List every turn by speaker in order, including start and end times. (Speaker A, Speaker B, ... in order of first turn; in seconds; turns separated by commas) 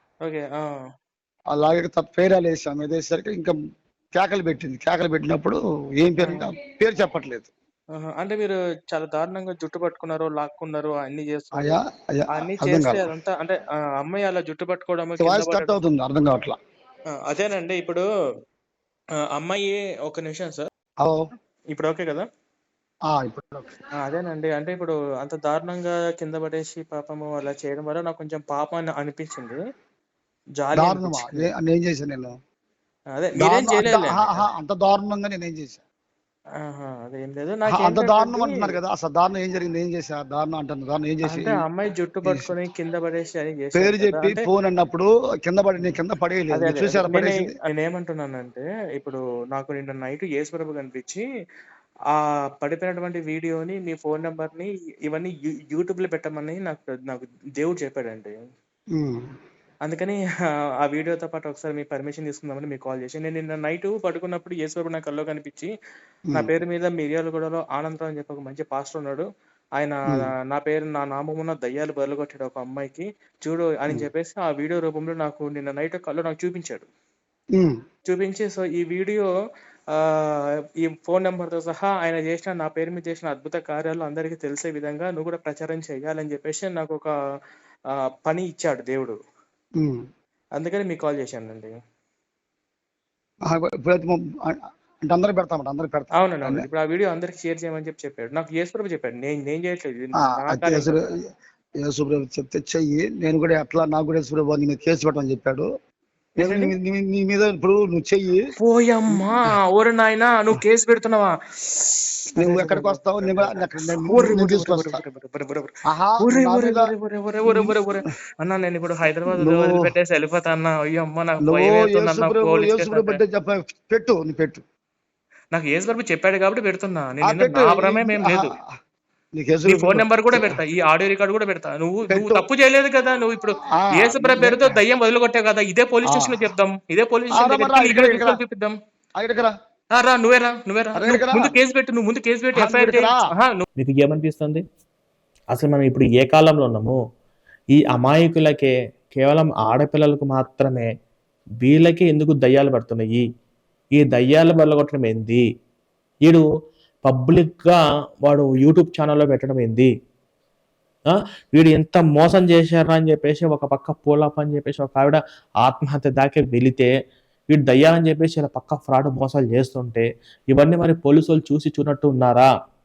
Speaker A: 0.2-0.8, Speaker B: 1.5-3.5, Speaker B: 4.1-7.5, Speaker A: 7.9-11.8, Speaker B: 11.5-13.1, Speaker A: 12.3-15.7, Speaker B: 15.2-16.6, Speaker A: 17.1-18.0, Speaker A: 19.4-20.6, Speaker C: 20.1-20.6, Speaker A: 21.7-22.2, Speaker B: 23.1-23.7, Speaker A: 24.0-29.6, Speaker A: 30.6-31.5, Speaker B: 30.7-32.3, Speaker A: 33.1-34.4, Speaker B: 33.4-35.8, Speaker A: 36.6-38.8, Speaker B: 37.6-41.6, Speaker A: 41.2-44.4, Speaker B: 42.2-42.5, Speaker B: 43.7-47.6, Speaker A: 46.5-51.2, Speaker A: 52.6-58.3, Speaker B: 58.9-59.3, Speaker A: 59.9-60.2, Speaker A: 60.8-65.7, Speaker A: 66.3-69.2, Speaker A: 69.8-76.8, Speaker A: 78.1-79.3, Speaker A: 80.8-87.1, Speaker A: 88.2-89.2, Speaker B: 89.8-90.0, Speaker A: 90.6-91.7, Speaker B: 93.5-96.7, Speaker A: 96.2-101.0, Speaker B: 100.1-101.2, Speaker B: 101.8-105.7, Speaker B: 106.4-108.4, Speaker A: 106.4-106.7, Speaker A: 108.6-111.3, Speaker B: 112.4-115.0, Speaker A: 112.4-113.6, Speaker A: 114.1-115.7, Speaker B: 115.9-117.9, Speaker A: 116.2-123.2, Speaker B: 119.3-119.9, Speaker C: 120.1-121.1, Speaker B: 121.4-124.6, Speaker A: 125.5-128.5, Speaker C: 125.8-126.6, Speaker B: 127.2-128.7, Speaker B: 129.4-130.6, Speaker A: 129.7-138.7, Speaker C: 130.9-131.7, Speaker B: 132.1-132.5, Speaker C: 132.7-133.3, Speaker B: 133.6-134.8, Speaker C: 135.2-135.7, Speaker B: 136.0-136.5, Speaker B: 137.3-138.4, Speaker B: 139.2-139.5, Speaker A: 140.0-143.2, Speaker B: 140.9-141.5, Speaker C: 141.7-142.5, Speaker B: 142.5-143.3, Speaker C: 143.8-144.6, Speaker C: 145.5-147.0, Speaker C: 147.7-150.9, Speaker C: 151.6-153.2, Speaker C: 154.0-155.4, Speaker C: 157.0-159.9, Speaker C: 161.1-166.9, Speaker C: 167.5-172.5